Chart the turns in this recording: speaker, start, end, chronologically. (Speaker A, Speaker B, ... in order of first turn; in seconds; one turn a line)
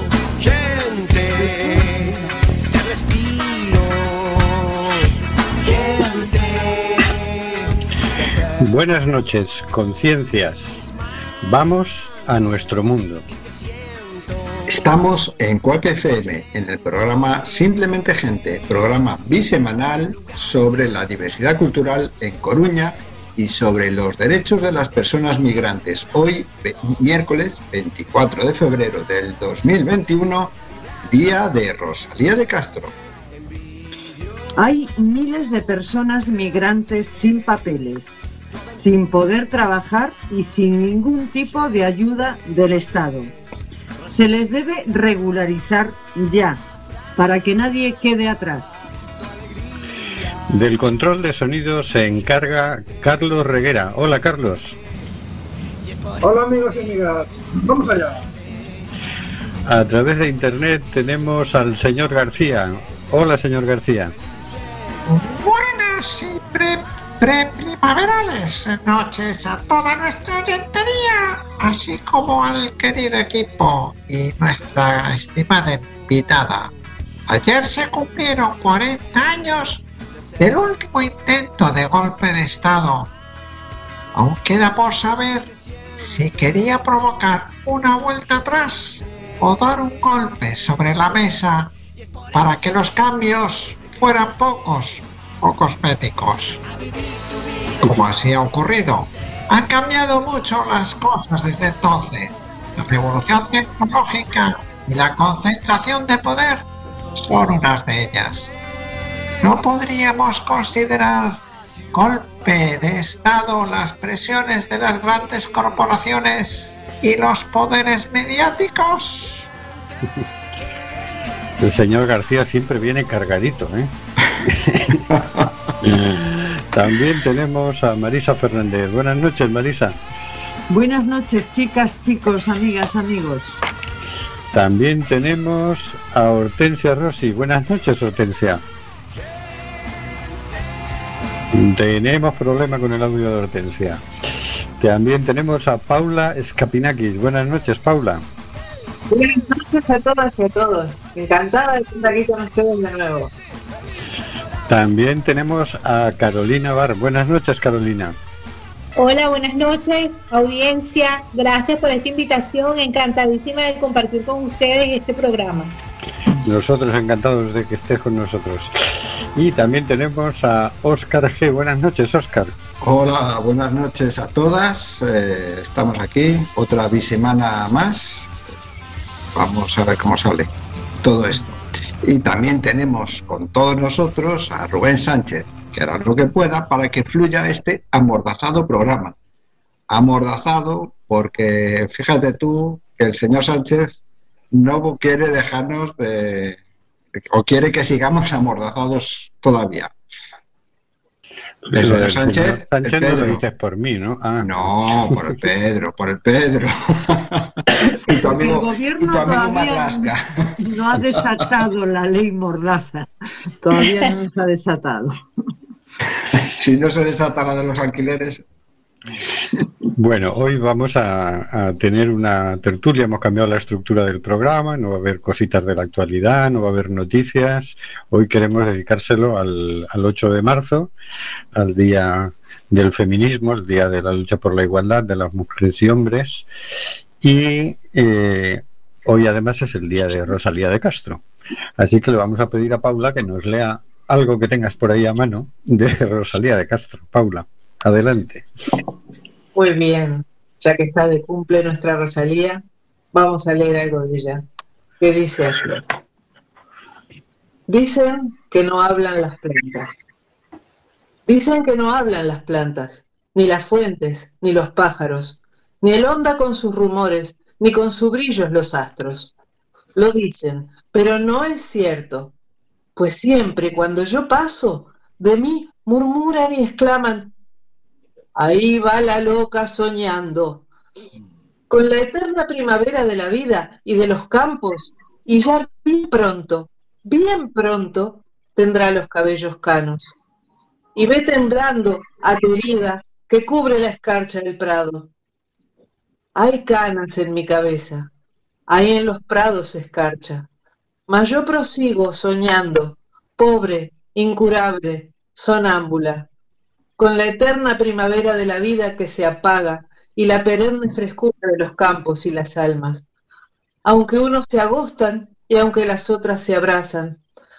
Speaker A: 0.3-5.0
Speaker A: 5.6-7.3
Speaker B: 8.6-10.9
Speaker B: 11.4-13.2
Speaker C: 14.7-30.6
Speaker C: 31.1-32.9
Speaker D: 34.6-38.1
Speaker D: 38.8-43.3
Speaker D: 44.1-46.6
Speaker D: 47.1-48.7
Speaker B: 50.5-54.8
Speaker A: 56.4-57.0
Speaker B: 59.6-64.1
Speaker E: 65.1-76.7
Speaker E: 77.3-79.8
Speaker E: 80.4-83.1
Speaker E: 84.1-91.7
Speaker E: 92.3-96.6
Speaker E: 97.8-106.7
Speaker E: 107.2-108.5
Speaker E: 109.4-111.4
Speaker E: 111.9-119.5
Speaker B: 121.6-123.9
Speaker B: 124.5-125.0
Speaker C: 125.1-125.5
Speaker B: 125.8-130.0
Speaker D: 130.7-133.5
Speaker B: 134.5-138.6
Speaker B: 141.5-148.2
Speaker F: 149.1-153.3
Speaker B: 154.7-158.2
Speaker G: 158.9-165.8
Speaker B: 166.4-172.6
Speaker C: 172.8-178.3
Speaker C: 179.3-180.5
Speaker C: 181.0-189.2
Speaker C: 189.9-196.6
Speaker C: 197.2-199.9
Speaker B: 201.7-205.2
Speaker C: 201.8-203.4
Speaker C: 204.4-207.5
Speaker C: 208.1-210.2
Speaker D: 208.1-215.2
Speaker C: 216.3-218.4
Speaker B: 219.9-230.9
Speaker B: 231.5-236.5
Speaker B: 237.2-241.2
Speaker B: 241.8-248.5
Speaker F: 249.5-252.6
Speaker F: 253.1-254.4
Speaker F: 255.0-255.8
Speaker F: 257.7-259.9
Speaker F: 261.3-269.3
Speaker F: 269.9-272.3
Speaker F: 272.9-277.3
Speaker F: 278.4-280.6
Speaker F: 281.7-290.1
Speaker F: 290.9-295.1
Speaker F: 296.4-298.1
Speaker F: 298.7-300.5
Speaker F: 301.1-306.3
Speaker F: 307.0-313.0
Speaker F: 313.8-317.2